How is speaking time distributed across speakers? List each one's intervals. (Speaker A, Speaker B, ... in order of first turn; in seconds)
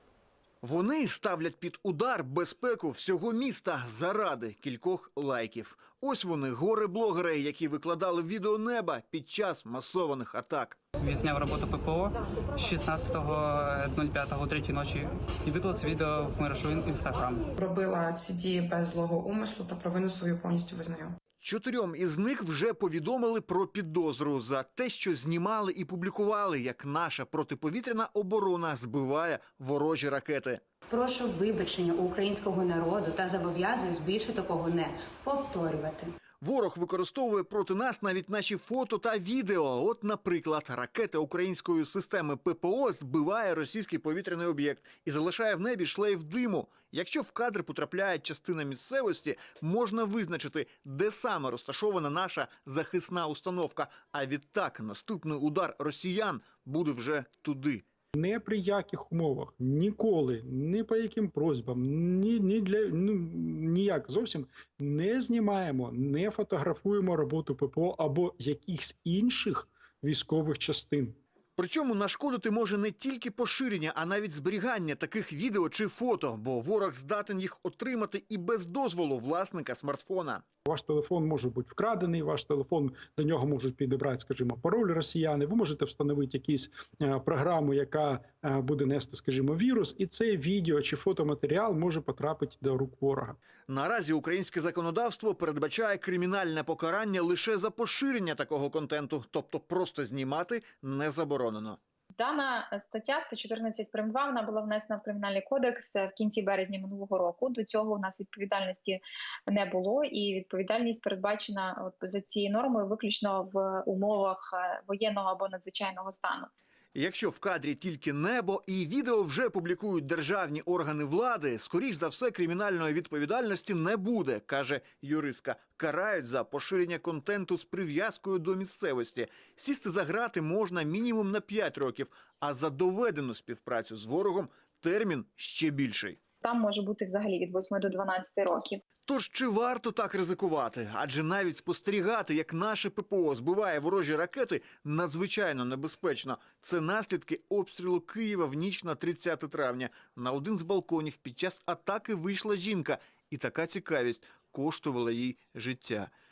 Speaker A: 0.6-10.8, 21.4-30.6, 36.4-57.8, 71.6-80.4, 93.7-101.8, 116.9-136.2, 139.1-156.1
Speaker B: 11.0-17.5
Speaker C: 17.6-21.1
Speaker D: 30.9-36.1
Speaker E: 58.1-71.2, 80.7-93.4
Speaker F: 102.1-116.5, 136.4-138.8